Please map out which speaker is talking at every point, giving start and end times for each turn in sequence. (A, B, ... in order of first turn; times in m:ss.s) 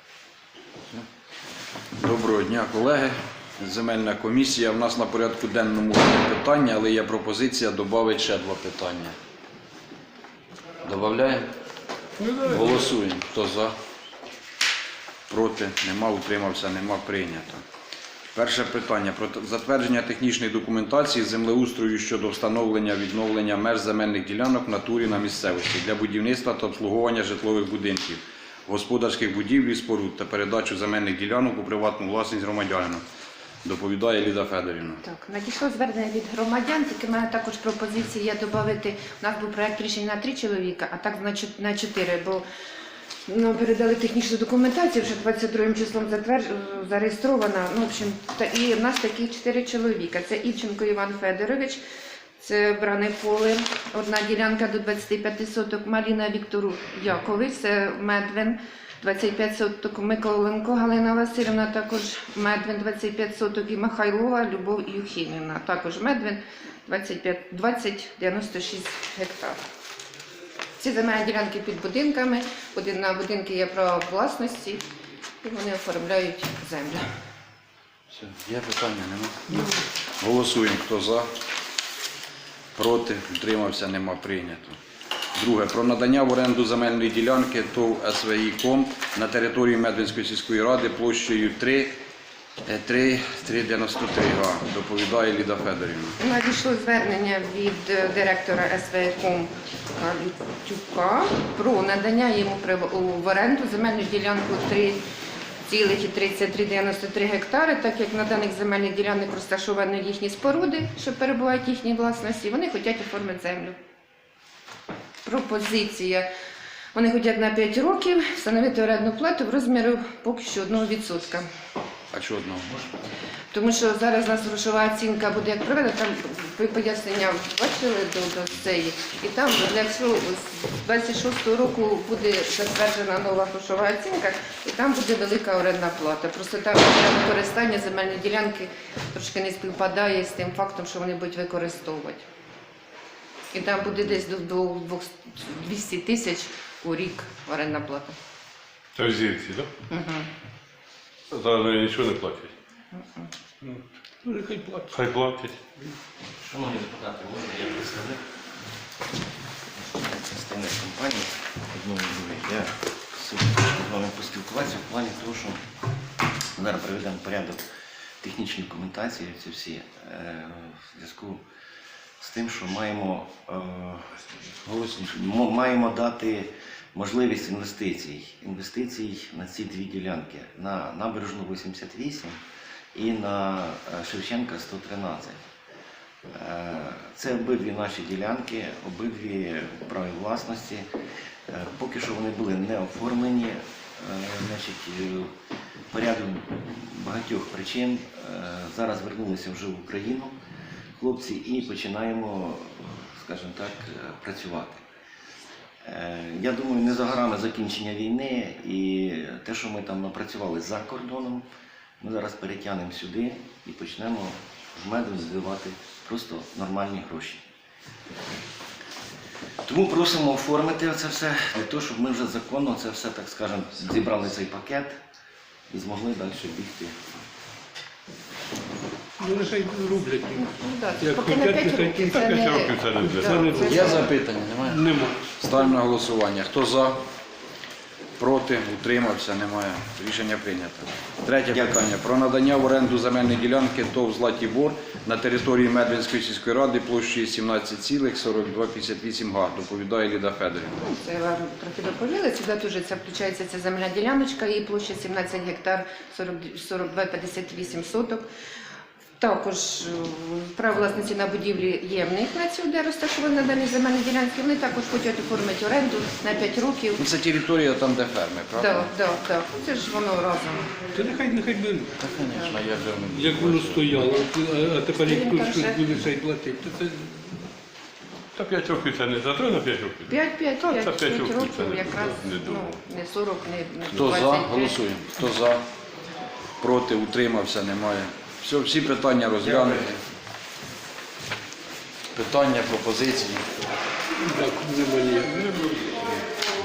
0:02.0-0:09.2 A
0:10.8-0:11.5 A
0:12.2-0:12.9 B
0:12.4-0:13.7 A
0:15.3-0:17.6 A
0:18.4-0:33.0 A
0:33.6-0:35.0 A
0:35.0-0:42.4 C
0:43.3-0:51.8 C
0:52.4-1:09.6 C
1:10.8-1:14.8 C
1:15.4-1:17.1 C
1:18.1-1:19.6 A
1:20.2-1:21.3 A
1:22.8-1:24.8 A
1:25.4-1:31.9 A
1:32.7-1:36.2 A
1:36.2-1:45.0 C
1:45.7-1:53.8 C
1:55.2-1:56.3 C
1:56.9-2:01.5 C
2:02.1-2:02.8 A
2:03.5-2:22.2 C
2:23.5-2:28.1 C
2:29.0-2:29.7 B
2:29.9-2:30.3 C
2:31.3-2:32.5 B
2:32.9-2:33.3 C
2:34.2-2:35.1 D
2:34.9-2:35.7 B
2:36.4-2:38.2 E
2:39.9-2:45.6 E
2:46.6-2:47.6 E
2:48.2-2:51.4 E
2:52.2-2:54.3 E
2:54.6-2:55.1 A
2:55.0-3:02.4 E
3:03.0-3:05.4 E
3:06.3-3:10.9 E
3:11.5-3:15.3 E
3:15.9-3:20.3 E
3:21.0-3:24.8 E
3:25.8-3:31.4 E
3:32.0-3:37.5 E
3:39.6-3:45.0 E
3:45.7-3:47.0 E
3:49.2-3:50.4 D
3:50.3-3:54.1 C
3:51.0-3:52.2 D
3:52.2-3:53.5 B
3:53.0-3:54.2 D
3:53.6-3:57.0 A
3:54.7-3:55.2 D
3:58.2-4:10.8 A
4:10.8-4:18.2 C
4:19.2-4:27.1 C
4:27.0-4:28.9 A
4:28.6-4:30.7 C
4:31.0-4:31.9 D
4:32.0-4:34.1 A
4:33.1-4:37.5 D
4:35.0-4:35.8 C
4:38.4-4:42.8 B
4:40.1-4:44.8 C
4:44.0-4:45.6 A
4:46.6-4:50.0 A
4:52.1-4:53.4 A
4:54.2-4:56.1 D